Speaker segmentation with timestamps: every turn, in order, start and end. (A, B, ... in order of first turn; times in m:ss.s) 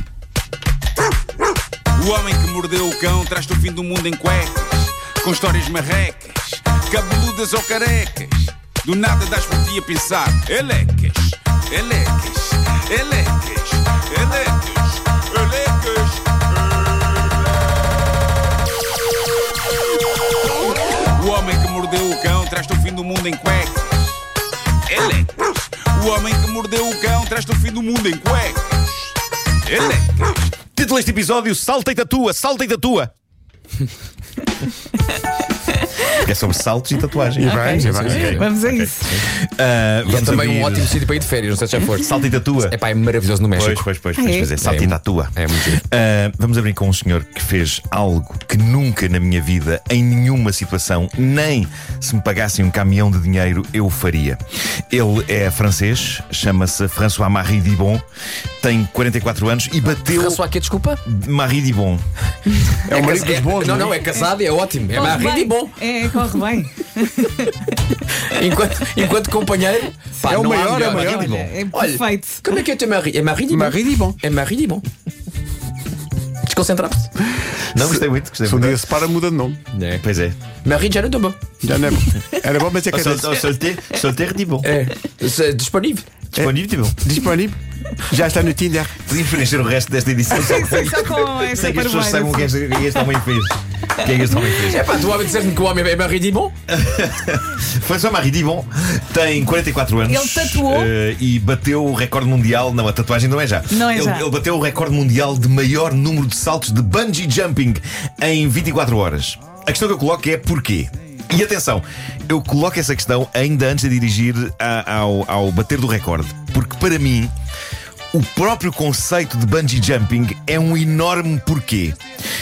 0:01.9-0:17.6 A
0:21.0-0:24.2 A
0:24.8-0:30.5 A
0:30.7-0:33.1 B
0:36.1-0:41.1 B
0:37.4-0:38.4 C
0:37.4-0:39.2 D
0:37.8-0:38.4 E
0:40.0-0:43.9 E
0:41.9-0:42.8 B
0:43.5-0:54.4 B
0:44.2-0:44.5 D
0:44.6-0:45.8 E
0:54.9-0:58.0 B
0:58.6-1:00.4 B
1:00.1-1:01.0 E
1:01.0-1:02.0 B
1:02.8-1:04.0 C
1:02.9-1:06.1 E
1:04.9-1:07.6 D
1:08.2-1:14.8 E
1:10.2-1:11.5 C
1:10.8-1:12.5 D
1:13.5-1:14.2 C
1:16.4-1:17.1 E
1:17.7-1:18.8 B
1:17.7-1:18.0 E
1:18.4-1:19.6 C
1:19.7-1:20.0 E
1:20.0-1:20.4 B
1:20.6-1:21.4 E
1:21.6-1:23.4 C
1:22.9-1:24.7 B
1:24.6-1:26.1 E
1:26.3-1:27.1 B
1:26.4-1:29.1 C
1:29.0-1:34.9 B
1:30.3-1:32.9 D
1:34.6-1:36.5 E
1:36.7-1:57.3 B
1:40.0-1:40.9 D
1:43.7-1:44.2 D
1:58.1-2:02.0 B